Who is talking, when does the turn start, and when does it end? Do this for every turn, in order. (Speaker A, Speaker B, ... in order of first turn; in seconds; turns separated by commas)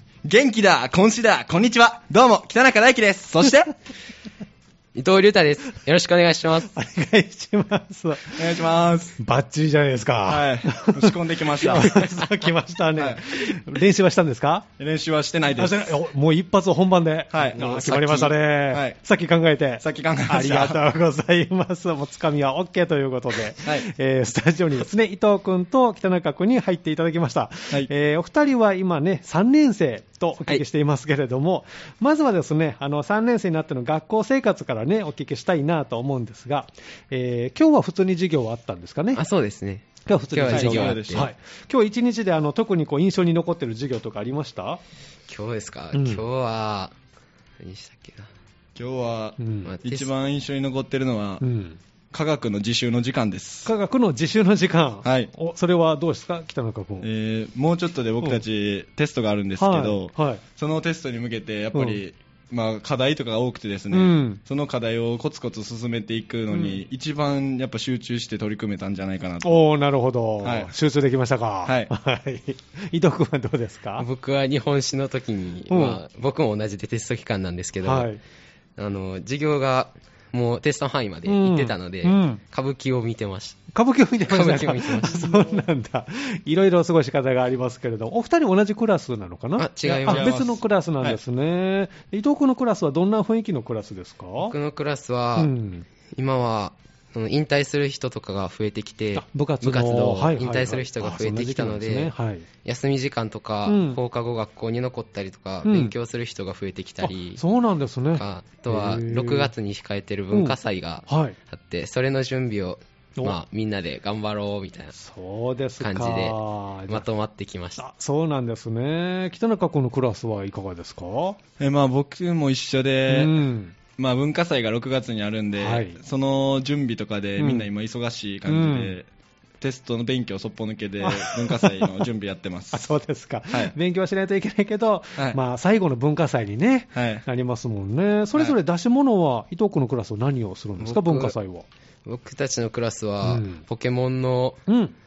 Speaker A: 0.2-3.7, Speaker B: 4.9-6.7, Speaker C: 6.7-8.6, Speaker A: 8.3-9.2, Speaker C: 9.2-14.7, Speaker A: 10.3-12.1, Speaker A: 13.0-13.3, Speaker A: 14.8-16.0, Speaker C: 15.5-39.2, Speaker A: 17.3-19.0, Speaker A: 19.8-20.8, Speaker B: 39.1-41.3, Speaker C: 40.0-44.8, Speaker A: 40.5-41.3, Speaker B: 45.3-46.9, Speaker C: 45.9-46.2, Speaker B: 47.6-48.3, Speaker A: 48.7-51.4, Speaker C: 49.4-49.7, Speaker B: 49.6-50.1, Speaker C: 51.4-51.8, Speaker A: 52.1-53.7, Speaker C: 53.6-57.1, Speaker A: 55.0-55.3, Speaker A: 57.0-69.6, Speaker C: 59.6-60.4, Speaker C: 61.7-62.0, Speaker C: 63.9-64.4, Speaker C: 66.5-66.8, Speaker C: 69.4-74.0, Speaker A: 70.4-70.7, Speaker A: 71.6-71.9, Speaker B: 74.0-78.1, Speaker C: 75.7-76.0, Speaker C: 77.8-78.2, Speaker B: 78.8-83.6, Speaker C: 81.2-82.4, Speaker C: 83.7-94.5, Speaker B: 84.2-85.6, Speaker B: 89.6-90.4, Speaker A: 89.8-91.2, Speaker B: 94.4-95.5, Speaker C: 95.3-95.8, Speaker B: 96.1-102.1, Speaker C: 99.1-102.5, Speaker B: 102.6-107.4, Speaker C: 103.6-104.0, Speaker C: 105.6-105.9, Speaker C: 107.0-109.5, Speaker B: 108.1-114.9, Speaker C: 110.3-111.3, Speaker C: 114.9-117.0, Speaker B: 115.8-116.4, Speaker B: 116.9-117.8, Speaker C: 117.8-121.4, Speaker A: 121.6-123.4, Speaker C: 123.1-123.7, Speaker A: 124.0-129.1, Speaker C: 125.6-126.0, Speaker C: 127.4-127.7, Speaker C: 128.4-128.9, Speaker A: 129.6-132.9, Speaker C: 131.0-132.1, Speaker C: 132.7-141.7, Speaker A: 136.9-137.2, Speaker B: 140.8-141.3, Speaker B: 142.0-144.6, Speaker C: 143.2-143.6, Speaker C: 144.7-144.9